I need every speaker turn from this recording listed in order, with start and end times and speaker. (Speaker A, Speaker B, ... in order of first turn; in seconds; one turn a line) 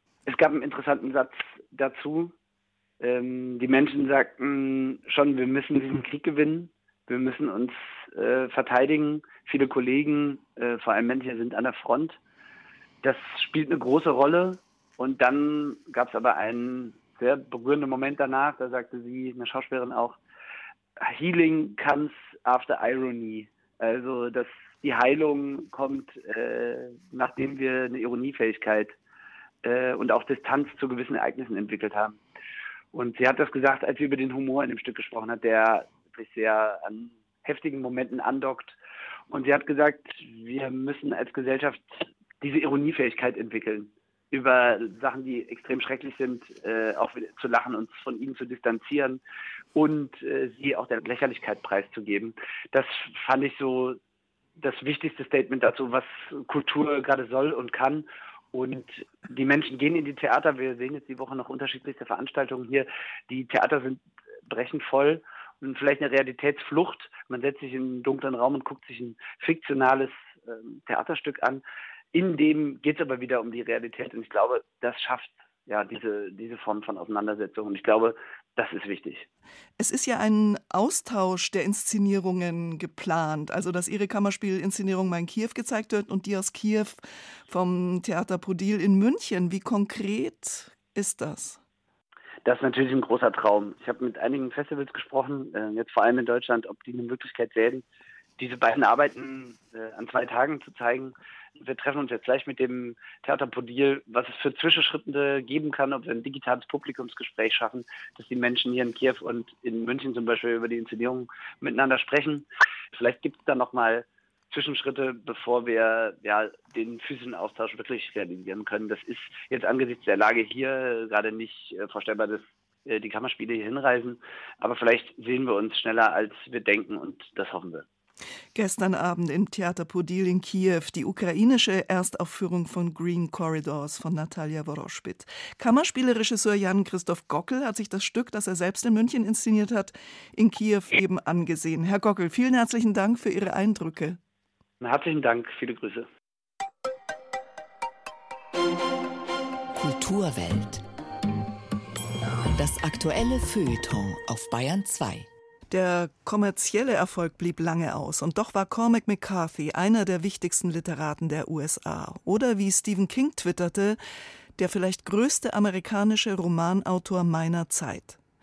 Speaker A: 0.3-2.3
Speaker A: 3.0-12.2
Speaker A: 13.0-20.2
Speaker A: 21.0-28.9
Speaker A: 29.6-32.2
Speaker A: 32.9-38.8
Speaker A: 39.3-41.8
Speaker A: 42.4-49.2
Speaker A: 49.8-54.0
Speaker A: 54.6-71.6
Speaker A: 72.1-79.3
Speaker B: 79.8-91.6
Speaker A: 92.5-97.8
Speaker A: 98.4-127.8
Speaker B: 128.6-144.2
Speaker A: 144.8-146.1
Speaker C: 149.7-150.8
Speaker C: 152.5-155.3
Speaker B: 155.7-164.0
Speaker B: 164.6-168.2